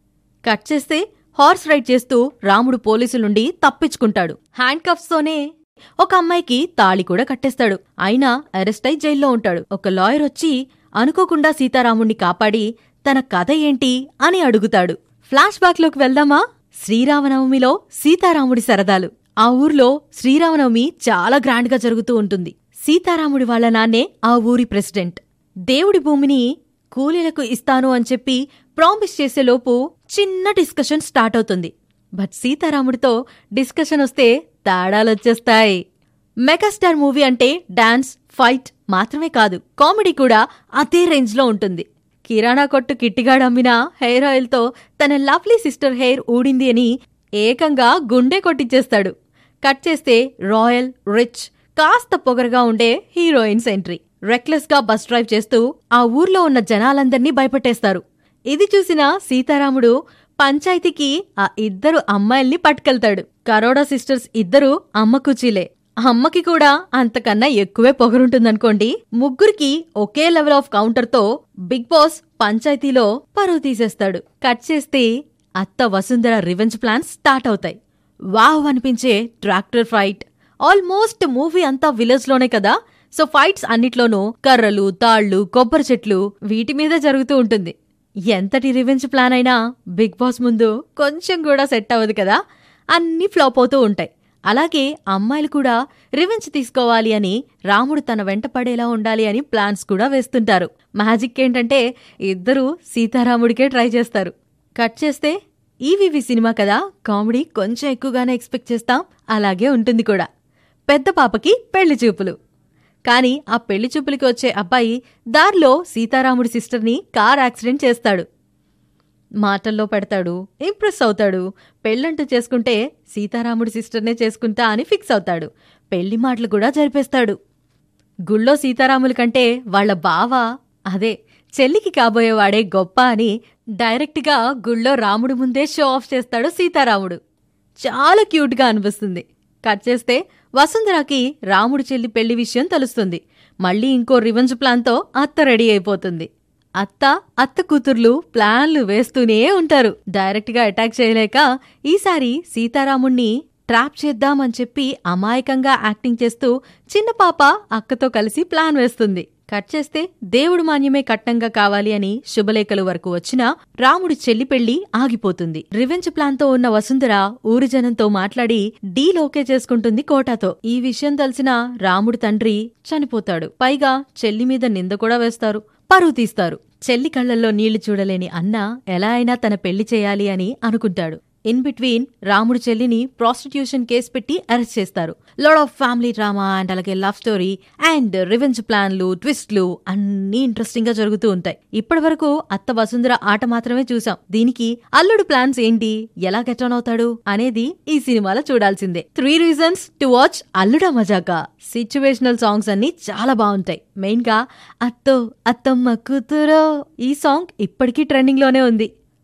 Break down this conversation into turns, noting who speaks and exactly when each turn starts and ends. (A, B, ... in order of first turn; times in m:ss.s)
0:00.5-0:05.4 A
0:06.0-0:35.8 A
0:36.5-0:46.9 A
0:47.4-1:15.1 A
1:15.6-1:17.8 A
1:18.4-1:27.8 A
1:28.3-1:32.4 A
1:33.0-1:45.4 A
1:45.9-1:50.3 A
1:50.9-1:52.4 A
1:53.1-1:58.3 A
1:59.4-2:07.4 A
2:08.3-2:17.2 A
2:17.8-2:26.3 A
2:26.8-3:28.9 A